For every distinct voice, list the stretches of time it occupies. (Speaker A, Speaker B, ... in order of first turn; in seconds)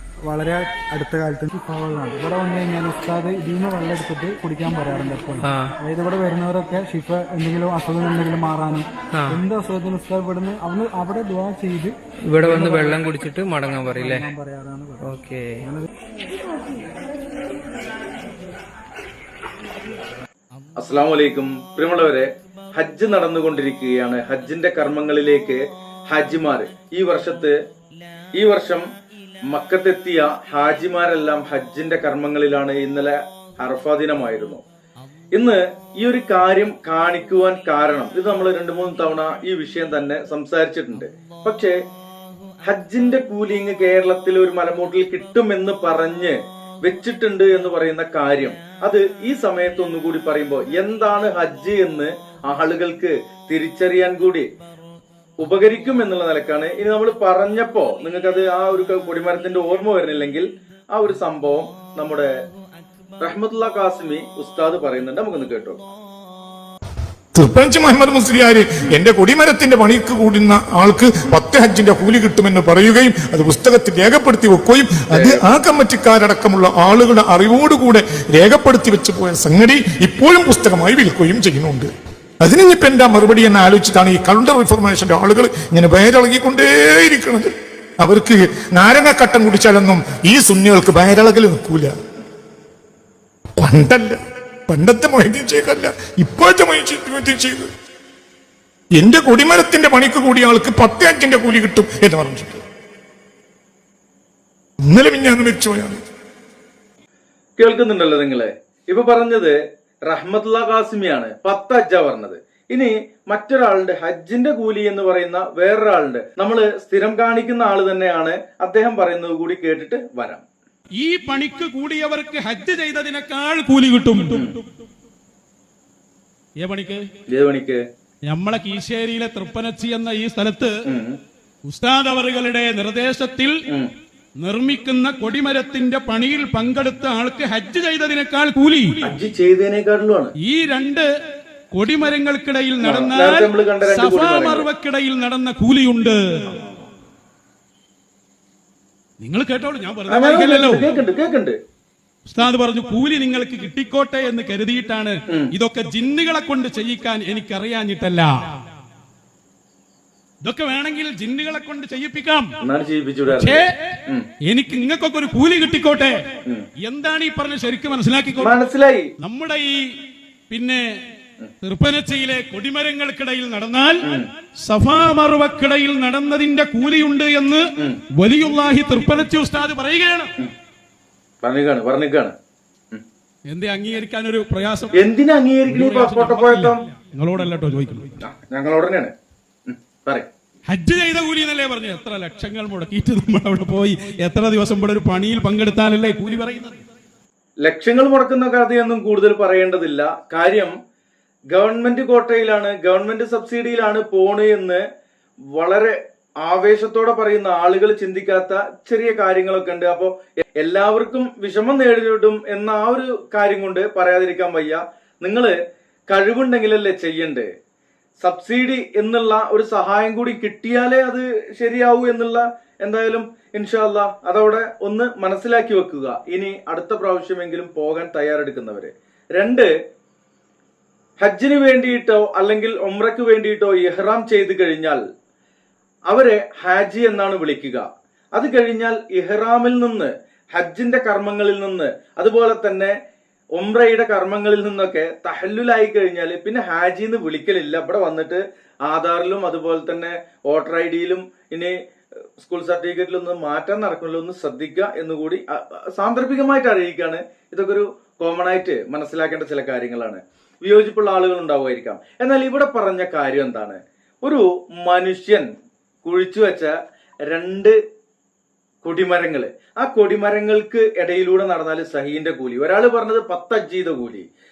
Speaker A: 0.2-13.3, 13.9-15.9
Speaker B: 5.4-5.7, 9.1-9.4, 12.3-14.3, 15.0-15.7
Speaker C: 20.8-27.5, 28.4-28.8, 29.5-34.6, 35.4-41.8, 42.7-54.5, 55.4-62.3, 63.2-65.8, 75.1-75.5, 107.6-109.6, 110.1-120.4, 124.2-124.5, 127.3-127.8, 130.9-131.2, 139.0-140.3, 142.8-144.7, 150.1-151.6, 162.6-164.2, 168.4-169.1, 181.4-182.3, 184.9-186.8, 188.2-189.1, 189.7-190.3, 197.6-200.7, 201.5-204.8, 205.6-215.5, 216.1-217.5, 218.2-229.7, 231.2-235.0, 236.1-242.9, 243.6-251.7, 252.4-265.5, 266.1-266.7, 267.3-267.8, 268.8-274.3
Speaker D: 67.3-81.9, 82.4-91.9, 93.6-97.7, 99.0-102.6, 104.8-106.0
Speaker E: 121.0-124.6, 126.6-127.0, 128.3-130.7, 131.7-133.6, 134.4-139.0, 140.4-141.1, 141.7-146.5, 149.2-150.9, 152.3-158.3, 160.4-162.5, 163.3-163.7, 164.5-166.2, 166.8-168.6, 169.2-169.8, 170.5-170.8, 171.6-174.0, 174.7-177.6, 178.2-180.3, 183.5-184.9, 185.7-188.1, 190.7-196.8